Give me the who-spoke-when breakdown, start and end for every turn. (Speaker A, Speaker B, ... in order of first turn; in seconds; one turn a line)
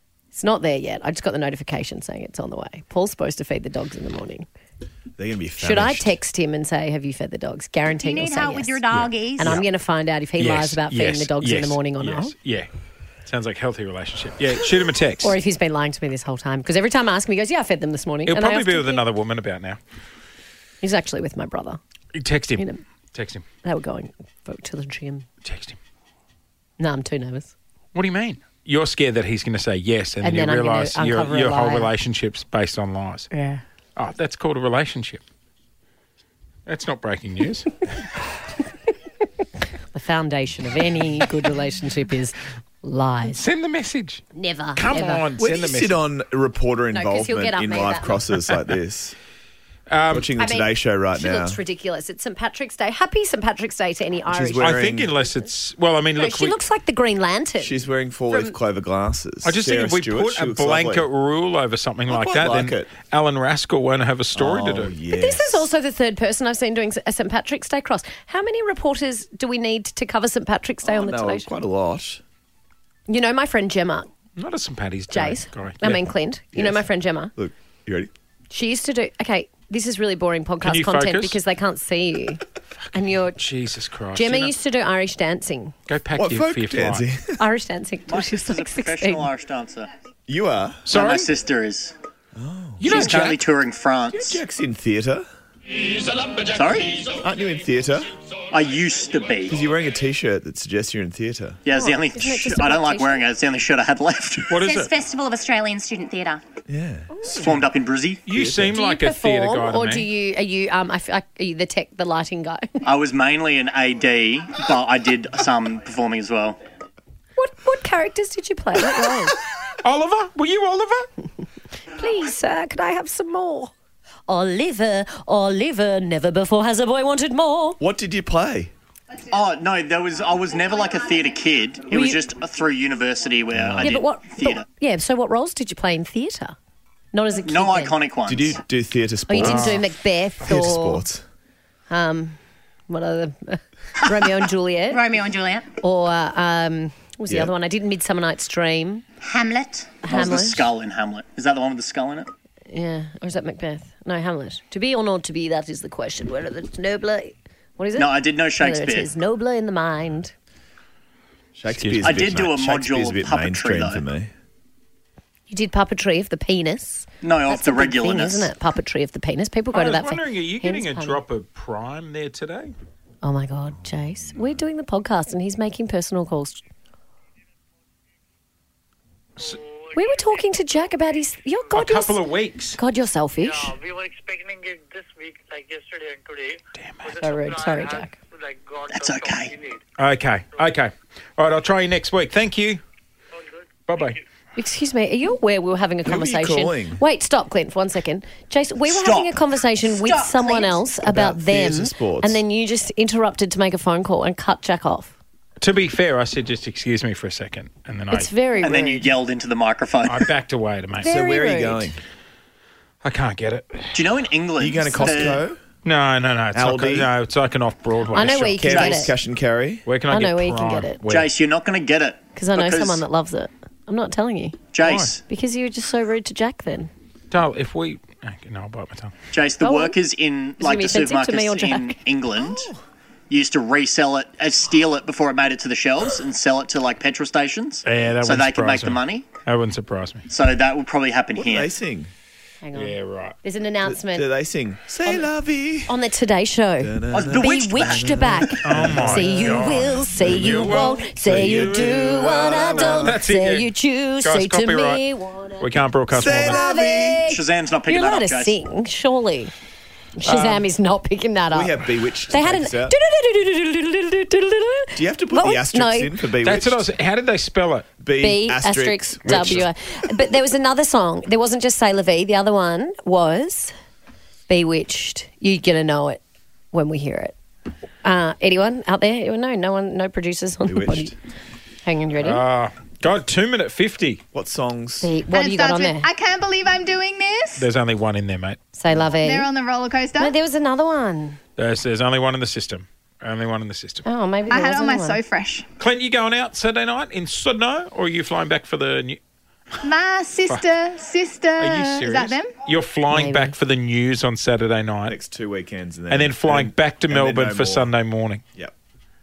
Speaker A: 0.3-4.5
Speaker B: 5.2-6.2
Speaker A: 5.6-8.8
Speaker C: 8.0-9.6
Speaker D: 8.9-9.6
Speaker A: 9.3-12.3
Speaker D: 10.4-12.7
Speaker D: 13.2-15.3
Speaker A: 15.2-19.0
Speaker D: 18.2-19.8
Speaker A: 20.8-21.8
Speaker D: 22.1-23.4
Speaker A: 23.6-25.3
Speaker D: 25.4-25.8
Speaker A: 26.8-27.5
Speaker D: 27.9-33.3
Speaker A: 30.2-31.9
Speaker A: 33.3-33.6
Speaker D: 34.0-35.2
Speaker D: 36.7-37.8
Speaker A: 39.9-43.4
Speaker D: 43.3-44.2
Speaker A: 44.3-45.2
Speaker D: 44.7-46.0
Speaker B: 45.4-49.1
Speaker A: 46.9-48.3
Speaker D: 49.9-50.3
Speaker B: 50.1-51.6
Speaker A: 50.4-54.8
Speaker B: 54.3-55.1
Speaker D: 54.6-56.6
Speaker A: 56.1-57.8
Speaker B: 57.6-61.1
Speaker D: 59.4-64.9
Speaker B: 62.1-62.9
Speaker B: 64.3-65.7
Speaker A: 65.1-71.5
Speaker B: 70.8-72.2
Speaker A: 73.1-74.1
Speaker D: 74.3-76.0
Speaker A: 75.1-77.3
Speaker B: 76.5-76.8
Speaker B: 77.3-78.1
Speaker A: 78.5-83.4
Speaker D: 80.6-81.4
Speaker D: 82.9-84.5
Speaker A: 84.1-85.7
Speaker D: 85.9-87.0
Speaker B: 86.1-87.4
Speaker A: 87.4-89.3
Speaker E: 88.1-89.9
Speaker B: 90.3-90.8
Speaker D: 90.9-91.3
Speaker E: 90.9-91.9
Speaker B: 92.3-93.1
Speaker D: 92.8-93.4
Speaker E: 92.8-94.4
Speaker B: 94.1-95.2
Speaker E: 96.4-97.1
Speaker B: 97.1-98.1
Speaker E: 98.5-99.6
Speaker B: 99.5-101.6
Speaker E: 101.6-104.5
Speaker A: 101.7-103.3
Speaker D: 104.5-104.9
Speaker C: 104.5-106.4
Speaker B: 106.7-107.7
Speaker E: 107.4-108.3
Speaker B: 108.3-108.8
Speaker D: 108.3-110.1
Speaker A: 108.7-112.8
Speaker E: 112.8-116.6
Speaker A: 117.4-119.4
Speaker D: 119.8-121.1
Speaker A: 121.9-123.7
Speaker A: 124.3-127.8
Speaker B: 127.8-128.7
Speaker E: 129.3-134.7
Speaker A: 131.9-132.2
Speaker B: 133.5-134.0
Speaker A: 133.8-136.6
Speaker A: 137.1-138.0
Speaker E: 137.4-138.6
Speaker B: 138.2-139.8
Speaker A: 139.3-141.1
Speaker D: 139.4-139.8
Speaker B: 140.4-141.2
Speaker A: 141.9-145.0
Speaker C: 144.9-145.7
Speaker A: 145.8-149.0
Speaker C: 149.2-150.0
Speaker A: 150.0-150.7
Speaker E: 150.0-152.3
Speaker A: 152.7-160.3
Speaker E: 157.9-159.1
Speaker B: 161.6-164.3
Speaker D: 161.7-162.4
Speaker E: 162.0-164.0
Speaker A: 165.5-171.2
Speaker E: 167.2-168.5
Speaker D: 169.7-172.7
Speaker A: 173.2-176.6
Speaker B: 173.7-174.6
Speaker F: 179.4-181.2
Speaker A: 179.9-182.2
Speaker D: 181.7-182.8
Speaker A: 182.8-183.8
Speaker F: 183.4-189.8
Speaker D: 186.8-187.2
Speaker A: 187.2-188.1
Speaker E: 188.9-189.5
Speaker D: 190.0-192.8
Speaker F: 193.3-194.2
Speaker D: 193.9-194.2
Speaker A: 194.6-205.1
Speaker B: 196.0-197.0
Speaker E: 198.9-199.3
Speaker C: 199.8-200.8
Speaker B: 201.0-202.4
Speaker D: 205.6-208.3
Speaker A: 208.1-209.1
Speaker E: 208.6-210.3
Speaker D: 210.1-211.1
Speaker A: 211.0-211.9
Speaker B: 211.0-212.0
Speaker D: 213.0-214.0
Speaker E: 213.9-215.4
Speaker B: 214.6-215.6
Speaker D: 215.8-218.8
Speaker B: 216.5-217.1
Speaker A: 218.1-219.1
Speaker B: 218.6-219.9
Speaker E: 218.7-219.0
Speaker D: 219.8-221.3
Speaker A: 220.1-221.0
Speaker E: 221.1-223.0
Speaker A: 222.3-224.6
Speaker E: 224.7-225.2
Speaker D: 224.8-225.1
Speaker A: 225.3-226.9
Speaker D: 227.3-229.1
Speaker E: 229.3-232.7
Speaker A: 229.6-230.0
Speaker A: 230.6-232.0
Speaker B: 232.4-232.8
Speaker E: 233.3-239.3
Speaker D: 237.8-240.2
Speaker E: 240.3-241.7
Speaker B: 241.3-242.1
Speaker A: 242.6-244.3
Speaker D: 242.7-243.3
Speaker B: 243.8-245.9
Speaker A: 245.8-259.5
Speaker B: 246.8-253.2
Speaker E: 247.1-248.2
Speaker D: 248.6-255.0
Speaker D: 255.6-256.6
Speaker B: 256.1-257.3
Speaker E: 257.2-258.6
Speaker A: 260.2-266.1
Speaker D: 260.2-260.7
Speaker B: 261.5-263.0
Speaker B: 264.9-266.8
Speaker D: 266.4-267.9
Speaker B: 268.0-269.7
Speaker A: 268.2-273.7
Speaker D: 269.2-269.6
Speaker A: 274.5-276.2
Speaker A: 276.7-277.3
Speaker A: 278.0-281.1
Speaker B: 280.6-281.1
Speaker A: 281.8-282.4
Speaker D: 282.2-284.2
Speaker B: 284.3-285.1
Speaker A: 285.0-286.1
Speaker G: 285.3-287.7
Speaker D: 287.6-288.6
Speaker A: 288.8-289.5
Speaker G: 289.1-290.4
Speaker A: 290.2-291.4
Speaker D: 291.6-294.0
Speaker A: 294.0-295.2
Speaker G: 294.5-295.7
Speaker D: 295.8-299.2
Speaker G: 299.8-302.6
Speaker D: 301.6-305.1
Speaker A: 303.1-303.5
Speaker B: 305.1-307.9
Speaker D: 306.1-308.4